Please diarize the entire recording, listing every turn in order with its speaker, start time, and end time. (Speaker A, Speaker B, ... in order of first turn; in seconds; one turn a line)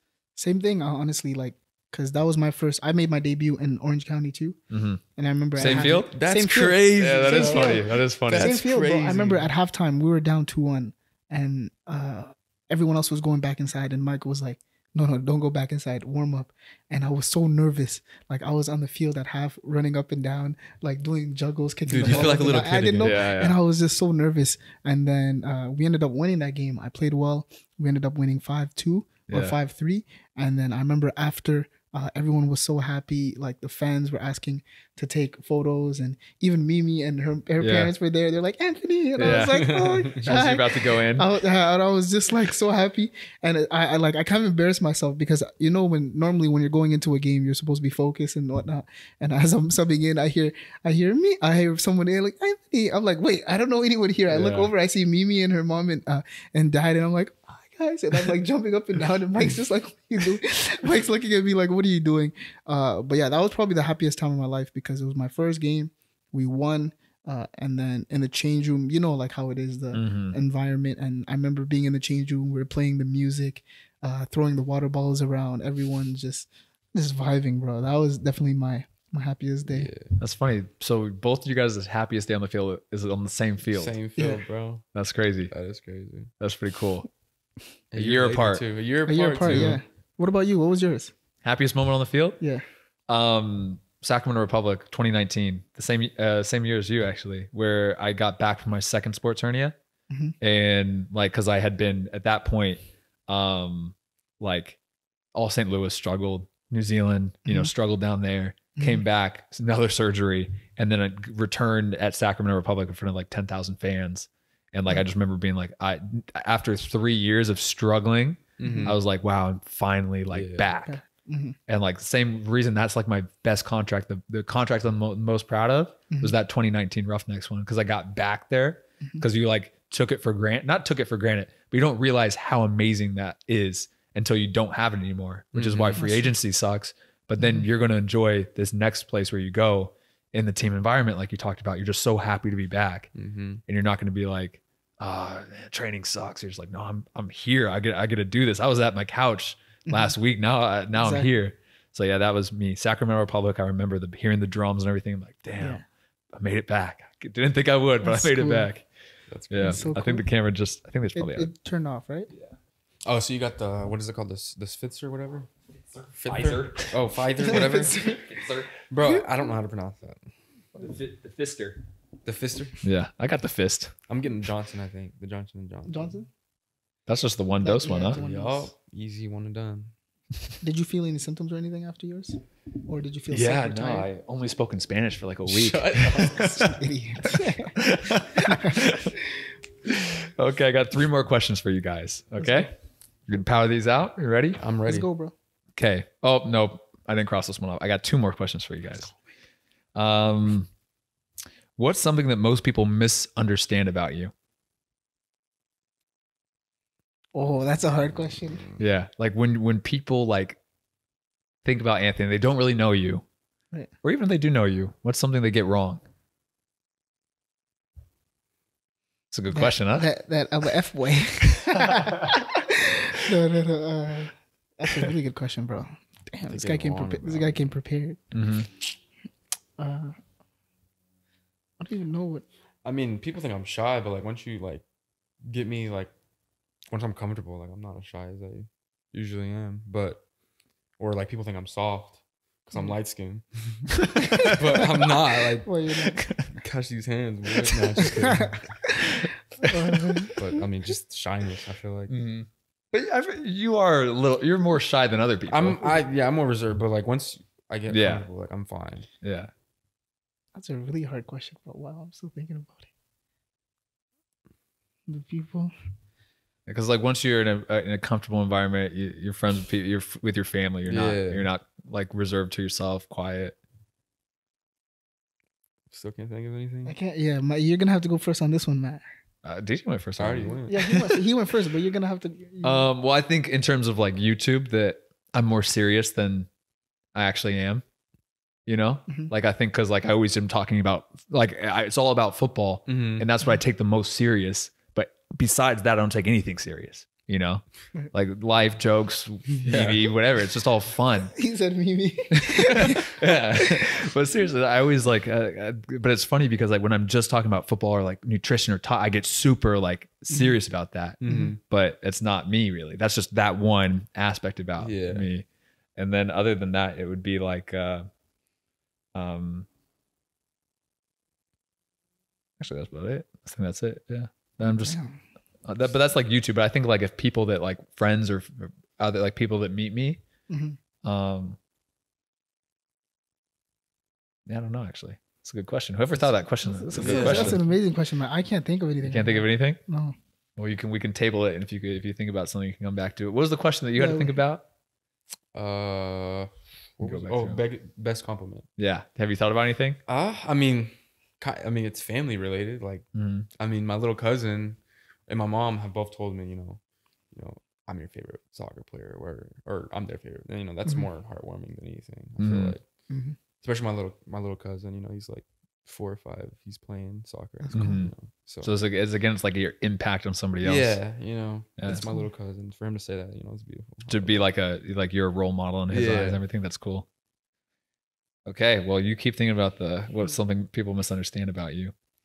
Speaker A: 0.4-4.6
Speaker B: 4.7-5.0
Speaker A: 5.2-79.9
Speaker B: 5.6-6.1
Speaker C: 5.6-9.5
Speaker B: 7.0-8.6
Speaker C: 21.9-23.2
Speaker B: 23.0-23.6
Speaker B: 29.3-29.6
Speaker B: 37.6-37.9
Speaker B: 39.2-41.3
Speaker C: 39.2-40.3
Speaker C: 54.3-54.7
Speaker B: 69.9-70.4
Speaker C: 79.7-80.2
Speaker B: 80.2-84.0
Speaker C: 83.7-84.8
Speaker A: 84.2-84.4
Speaker B: 84.9-85.5
Speaker C: 85.5-86.3
Speaker B: 86.4-87.1
Speaker C: 87.9-89.8
Speaker B: 88.0-88.6
Speaker A: 89.1-91.1
Speaker B: 89.4-89.8
Speaker B: 91.4-92.4
Speaker B: 93.1-99.8
Speaker A: 100.1-100.3
Speaker B: 100.4-104.8
Speaker B: 105.3-121.0
Speaker A: 107.5-107.7
Speaker A: 108.8-109.0
Speaker C: 118.6-119.0
Speaker A: 118.6-119.0
Speaker C: 120.3-120.7
Speaker A: 120.8-121.6
Speaker B: 121.7-143.1
Speaker A: 126.1-126.3
Speaker C: 135.5-136.1
Speaker A: 136.0-136.3
Speaker A: 137.4-137.7
Speaker C: 143.2-143.6
Speaker B: 143.7-155.8
Speaker A: 149.9-150.2
Speaker A: 151.0-151.3
Speaker A: 155.6-155.8
Speaker B: 156.3-158.9
Speaker A: 158.0-158.7
Speaker C: 159.3-159.8
Speaker B: 159.5-161.5
Speaker A: 159.6-160.3
Speaker A: 161.2-162.3
Speaker C: 163.1-165.5
Speaker C: 166.2-168.2
Speaker B: 166.3-167.0
Speaker A: 167.4-168.4
Speaker B: 168.0-168.7
Speaker C: 168.9-170.3
Speaker B: 170.8-171.8
Speaker C: 172.2-172.8
Speaker B: 172.8-173.9
Speaker C: 174.1-176.2
Speaker A: 175.9-176.3
Speaker B: 177.1-178.2
Speaker A: 177.6-178.7
Speaker C: 178.0-179.9
Speaker A: 180.6-184.1
Speaker B: 183.3-186.8
Speaker C: 185.5-186.8
Speaker A: 186.6-189.5
Speaker B: 187.8-189.1
Speaker B: 190.3-192.7
Speaker A: 192.4-192.7
Speaker B: 193.3-194.6
Speaker C: 194.6-195.1
Speaker A: 194.9-195.3
Speaker B: 195.8-199.1
Speaker B: 199.9-200.7
Speaker B: 201.8-204.3
Speaker A: 207.3-208.7
Speaker B: 208.8-210.6
Speaker B: 211.7-213.3
Speaker B: 214.0-216.0
Speaker B: 219.3-220.1
Speaker A: 219.5-228.2
Speaker C: 226.5-227.8
Speaker B: 228.3-228.7
Speaker A: 229.8-230.2
Speaker A: 231.8-232.4
Speaker C: 232.8-234.8
Speaker C: 235.4-236.1
Speaker C: 236.9-240.2
Speaker C: 241.0-245.7
Speaker B: 244.0-244.9
Speaker A: 244.2-245.1
Speaker A: 245.6-246.2
Speaker B: 246.2-246.5
Speaker C: 246.5-248.7
Speaker A: 248.1-248.9
Speaker B: 249.0-250.3
Speaker A: 249.6-250.5
Speaker C: 250.3-252.2
Speaker B: 252.1-256.1
Speaker C: 255.5-259.1
Speaker B: 257.9-258.3
Speaker B: 259.2-259.5
Speaker A: 260.6-262.9
Speaker A: 265.1-265.7
Speaker B: 266.7-273.6
Speaker C: 270.9-271.5
Speaker C: 275.9-277.0
Speaker A: 276.9-279.0
Speaker B: 279.4-280.6
Speaker C: 280.2-281.1
Speaker A: 280.7-282.9
Speaker B: 282.6-286.5
Speaker B: 287.1-287.8
Speaker B: 288.7-301.3
Speaker C: 292.9-293.3
Speaker C: 299.6-300.1
Speaker A: 301.3-304.0
Speaker B: 302.3-315.4
Speaker C: 311.2-311.6
Speaker A: 311.3-311.5
Speaker C: 314.8-315.3
Speaker B: 316.0-318.1
Speaker B: 319.1-319.7
Speaker B: 322.6-325.0
Speaker A: 324.6-325.2
Speaker B: 325.6-330.2
Speaker A: 330.5-330.8
Speaker B: 331.0-331.6
Speaker B: 334.5-337.6
Speaker A: 336.6-340.2
Speaker C: 336.9-337.6
Speaker B: 339.0-339.8
Speaker B: 340.6-344.6
Speaker A: 344.0-344.4
Speaker C: 345.5-348.7
Speaker B: 347.0-347.6
Speaker B: 348.8-350.0
Speaker C: 350.1-362.8
Speaker B: 353.1-353.5
Speaker B: 362.4-362.8
Speaker A: 363.1-363.4
Speaker C: 363.6-368.7
Speaker A: 367.6-368.0
Speaker B: 367.7-368.1
Speaker B: 368.6-371.0
Speaker C: 370.6-374.4
Speaker B: 371.8-372.0
Speaker A: 371.9-372.2
Speaker B: 374.1-377.1
Speaker C: 375.9-376.4
Speaker B: 378.5-381.9